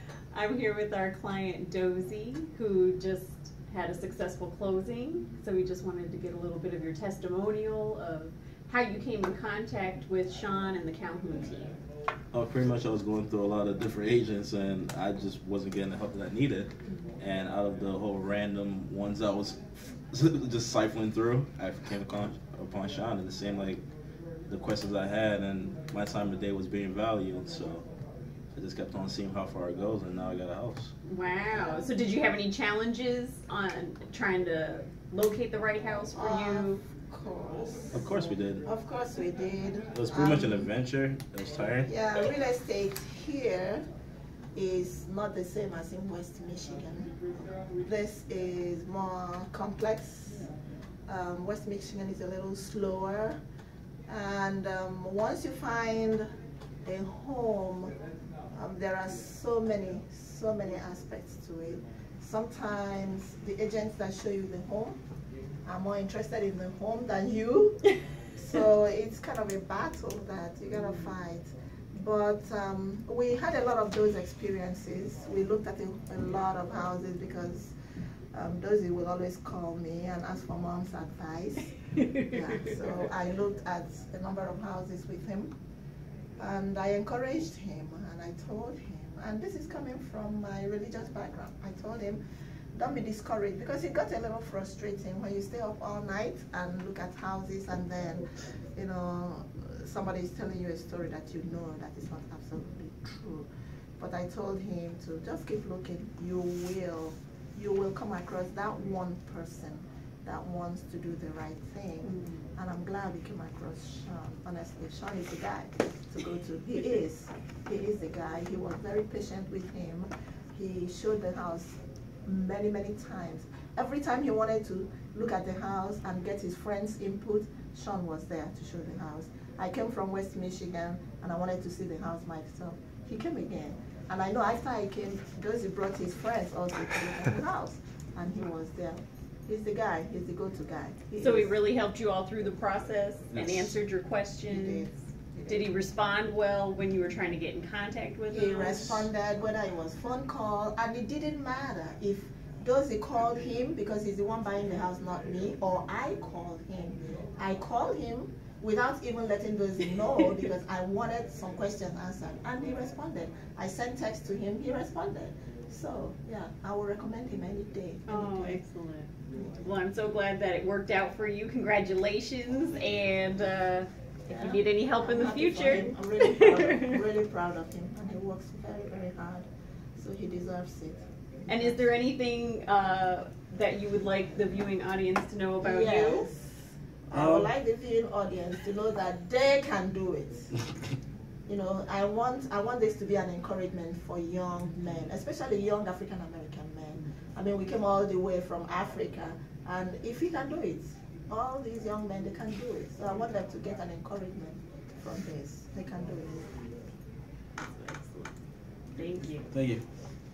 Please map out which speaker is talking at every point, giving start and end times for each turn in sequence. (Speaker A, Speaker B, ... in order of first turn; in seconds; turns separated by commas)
Speaker A: 0.3-11.8, Speaker B: 12.3-23.8, Speaker B: 24.5-27.9, Speaker B: 28.5-30.9, Speaker A: 31.1-36.8, Speaker C: 36.1-40.7, Speaker B: 37.9-38.6, Speaker B: 39.9-41.9, Speaker C: 41.9-43.9, Speaker C: 44.5-47.1, Speaker C: 47.7-50.5, Speaker C: 51.1-53.4, Speaker C: 54.1-56.3, Speaker C: 56.8-57.9, Speaker C: 58.5-65.0, Speaker C: 65.7-77.7, Speaker C: 78.3-85.5, Speaker C: 86.4-92.2, Speaker C: 92.8-103.5, Speaker C: 104.0-141.6, Speaker A: 141.2-144.9, Speaker C: 144.5-145.9, Speaker A: 145.5-149.1, Speaker C: 148.3-168.6, Speaker A: 168.1-176.9, Speaker C: 174.3-181.8, Speaker A: 181.5-186.3, Speaker C: 185.6-190.6, Speaker B: 187.2-187.5, Speaker C: 191.5-206.5, Speaker A: 209.0-209.4, Speaker B: 209.5-209.8